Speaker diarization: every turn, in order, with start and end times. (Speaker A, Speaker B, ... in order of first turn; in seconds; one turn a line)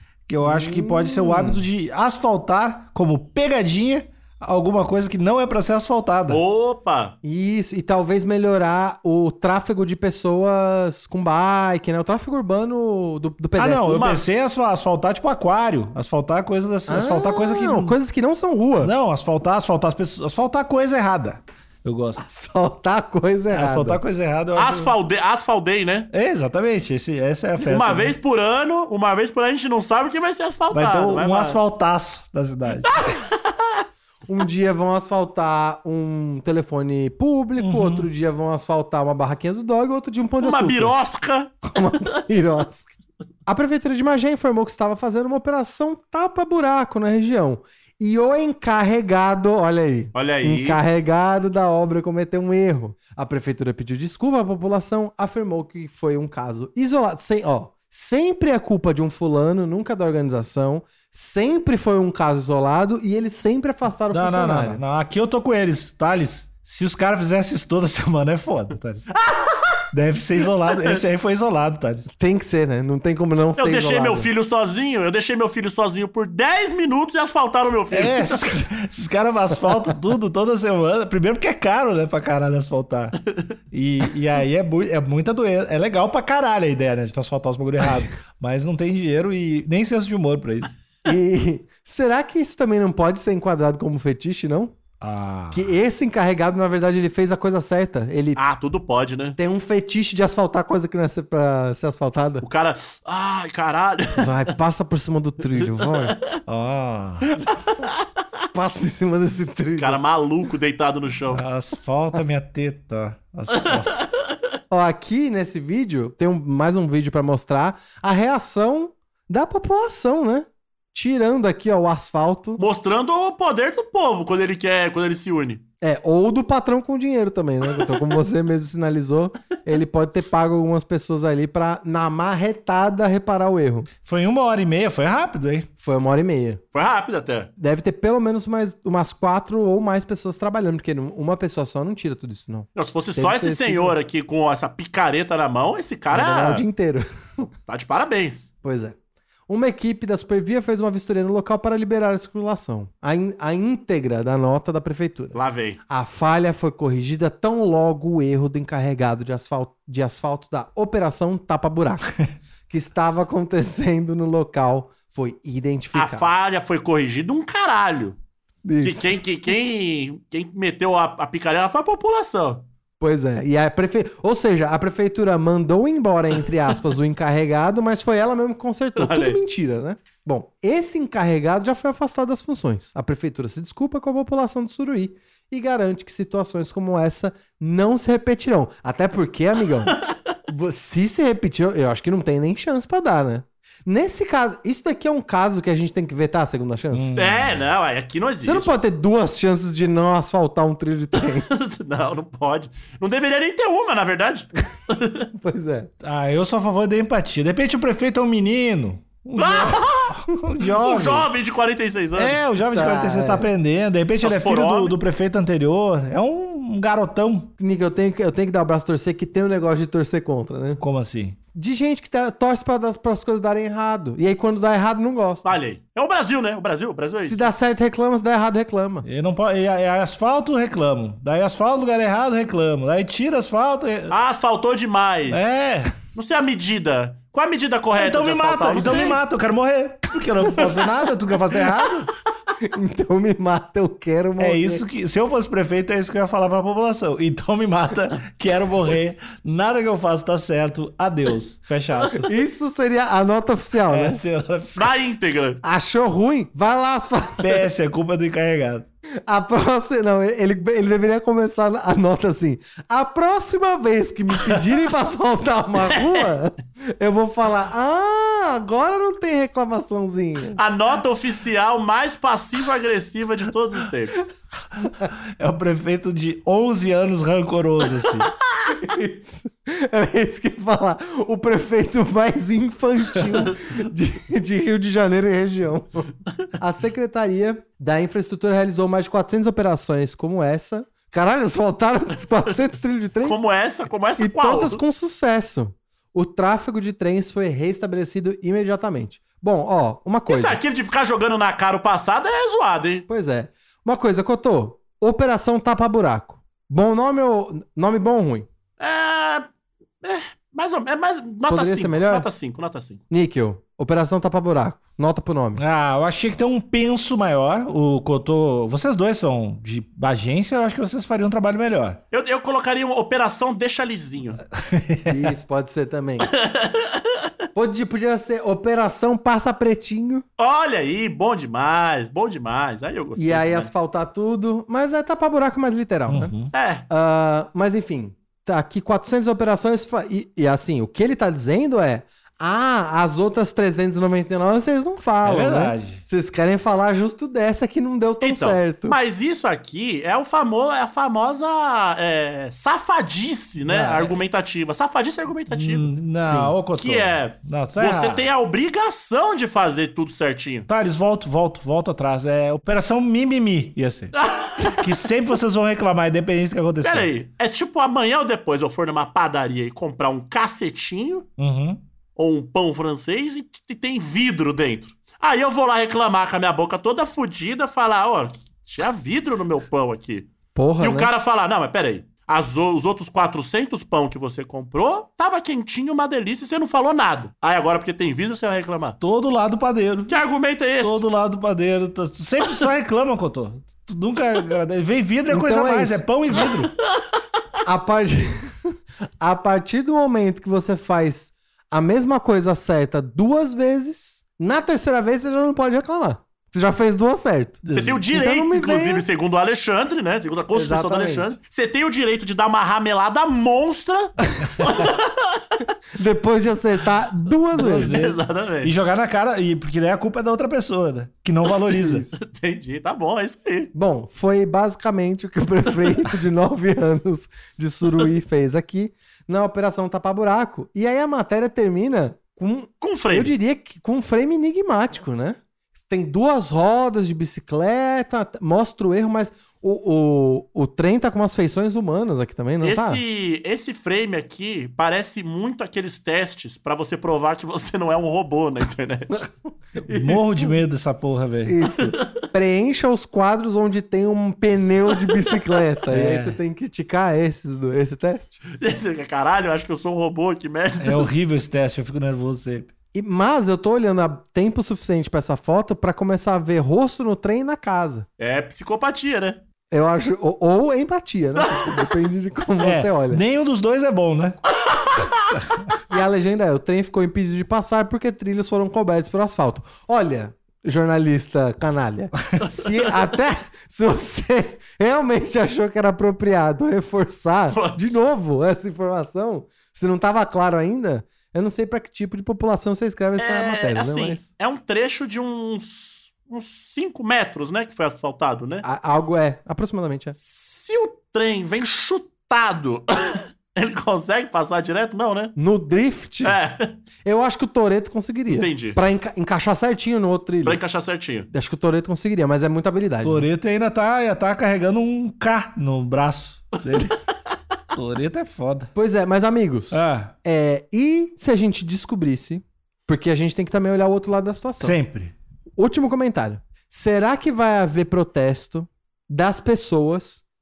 Speaker A: 0.3-6.4
Speaker B: 0.4-1.7
Speaker C: 6.3-7.2
Speaker B: 7.2-14.2
Speaker A: 13.6-18.0
Speaker C: 13.9-14.3
Speaker B: 16.9-18.9
Speaker A: 18.8-22.2
Speaker B: 22.2-24.0
Speaker A: 23.5-24.9
Speaker C: 24.6-26.1
Speaker A: 26.1-28.1
Speaker C: 27.6-31.6
Speaker A: 30.7-33.0
Speaker C: 32.9-33.4
Speaker B: 34.3-41.0
Speaker A: 37.6-38.1
Speaker C: 40.4-42.0
Speaker B: 41.7-42.9
Speaker B: 43.5-64.8
Speaker C: 50.1-50.8
Speaker A: 64.1-69.0
Speaker A: 69.9-72.1
Speaker B: 72.2-74.3
Speaker C: 73.6-78.6
Speaker A: 77.9-83.2
Speaker A: 83.7-90.8
Speaker B: 91.0-94.7
Speaker A: 95.0-95.8
Speaker B: 95.5-98.4
Speaker C: 98.4-99.4
Speaker B: 99.4-102.5
Speaker C: 102.4-104.3
Speaker B: 104.2-106.2
Speaker A: 106.5-107.4
Speaker B: 108.5-110.0
Speaker C: 109.8-111.4
Speaker A: 111.3-114.0
Speaker B: 114.7-122.6
Speaker C: 122.6-125.6
Speaker B: 125.8-133.9
Speaker A: 134.0-135.7
Speaker B: 135.8-136.6
Speaker C: 136.7-137.5
Speaker B: 137.6-144.0
Speaker C: 142.8-146.6
Speaker B: 146.1-147.1
Speaker C: 147.7-148.5
Speaker B: 148.6-149.0
Speaker B: 149.5-155.4
Speaker C: 155.3-155.8
Speaker B: 155.9-162.1
Speaker B: 162.7-166.3
Speaker C: 165.9-168.2
Speaker B: 168.7-169.2
Speaker C: 168.8-172.6
Speaker B: 173.0-190.0
Speaker C: 179.0-179.4
Speaker B: 190.5-197.1
Speaker A: 196.9-197.7
Speaker C: 197.2-198.7
Speaker B: 198.4-201.5
Speaker C: 201.2-205.3
Speaker B: 205.4-205.9
Speaker A: 206.0-211.3
Speaker C: 209.3-210.2
Speaker B: 209.4-209.8
Speaker C: 210.8-212.5
Speaker A: 212.2-217.5
Speaker B: 212.7-213.5
Speaker C: 214.2-215.0
Speaker B: 217.6-220.8
Speaker A: 220.8-221.4
Speaker B: 221.6-225.5
Speaker C: 225.4-227.5
Speaker B: 227.2-229.1
Speaker A: 229.0-234.2
Speaker C: 234.1-235.5
Speaker A: 235.3-235.9
Speaker C: 236.1-239.2
Speaker A: 238.0-242.1
Speaker B: 238.8-239.2
Speaker B: 242.6-244.8
Speaker A: 244.4-252.3
Speaker B: 252.2-254.2
Speaker A: 253.9-254.9
Speaker C: 254.8-255.6
Speaker B: 255.6-257.6
Speaker A: 257.4-258.9
Speaker B: 259.3-270.6
Speaker C: 265.8-266.4
Speaker C: 270.6-274.3
Speaker A: 274.8-278.3
Speaker B: 278.7-293.4
Speaker C: 293.2-294.8
Speaker B: 294.2-300.6
Speaker C: 300.3-303.1
Speaker B: 303.1-308.5
Speaker C: 308.8-309.5
Speaker C: 310.0-313.0
Speaker B: 311.5-312.3
Speaker B: 313.1-315.6
Speaker A: 315.6-322.0
Speaker C: 322.1-324.4
Speaker A: 324.7-325.2
Speaker B: 325.1-326.3
Speaker C: 326.2-327.2
Speaker B: 327.6-330.2
Speaker C: 330.4-333.7
Speaker B: 333.2-336.3
Speaker A: 336.1-336.5
Speaker C: 336.5-336.9
Speaker B: 336.9-349.0
Speaker A: 345.2-346.0
Speaker C: 348.2-355.9
Speaker A: 353.6-354.2
Speaker A: 355.5-358.3
Speaker B: 356.2-356.6
Speaker C: 356.8-360.7
Speaker A: 360.7-367.1
Speaker C: 364.2-365.0
Speaker C: 366.8-371.3
Speaker A: 371.4-371.8
Speaker C: 372.2-389.0
Speaker B: 380.6-381.1
Speaker A: 389.0-390.2
Speaker C: 390.1-391.0
Speaker A: 390.8-396.7
Speaker B: 395.3-396.0
Speaker B: 397.6-398.7
Speaker B: 399.2-409.1
Speaker A: 407.7-408.0
Speaker C: 407.7-415.1
Speaker B: 410.5-411.3
Speaker B: 415.9-418.1
Speaker A: 417.5-422.1
Speaker C: 417.8-418.7
Speaker C: 421.5-423.7
Speaker B: 423.7-443.0
Speaker C: 432.8-433.4
Speaker C: 442.6-449.2
Speaker B: 449.1-450.6
Speaker A: 449.8-451.6
Speaker B: 451.4-458.4
Speaker C: 451.8-452.2
Speaker A: 455.9-456.4
Speaker C: 458.6-461.1
Speaker A: 460.8-462.7
Speaker B: 462.9-468.1
Speaker C: 468.2-469.4
Speaker B: 469.7-473.2
Speaker C: 471.4-471.8
Speaker A: 472.6-474.4
Speaker B: 475.9-494.2
Speaker C: 482.5-482.9
Speaker C: 487.5-487.8
Speaker C: 493.2-498.6
Speaker B: 498.6-500.2
Speaker C: 500.2-505.3
Speaker B: 505.4-506.4
Speaker C: 506.2-506.8
Speaker B: 507.0-510.6
Speaker C: 508.3-508.8
Speaker C: 510.4-511.3
Speaker B: 511.3-513.3
Speaker A: 513.0-517.0
Speaker A: 517.7-518.7
Speaker B: 518.7-524.8
Speaker A: 519.7-520.1
Speaker A: 524.6-525.1
Speaker B: 525.6-530.2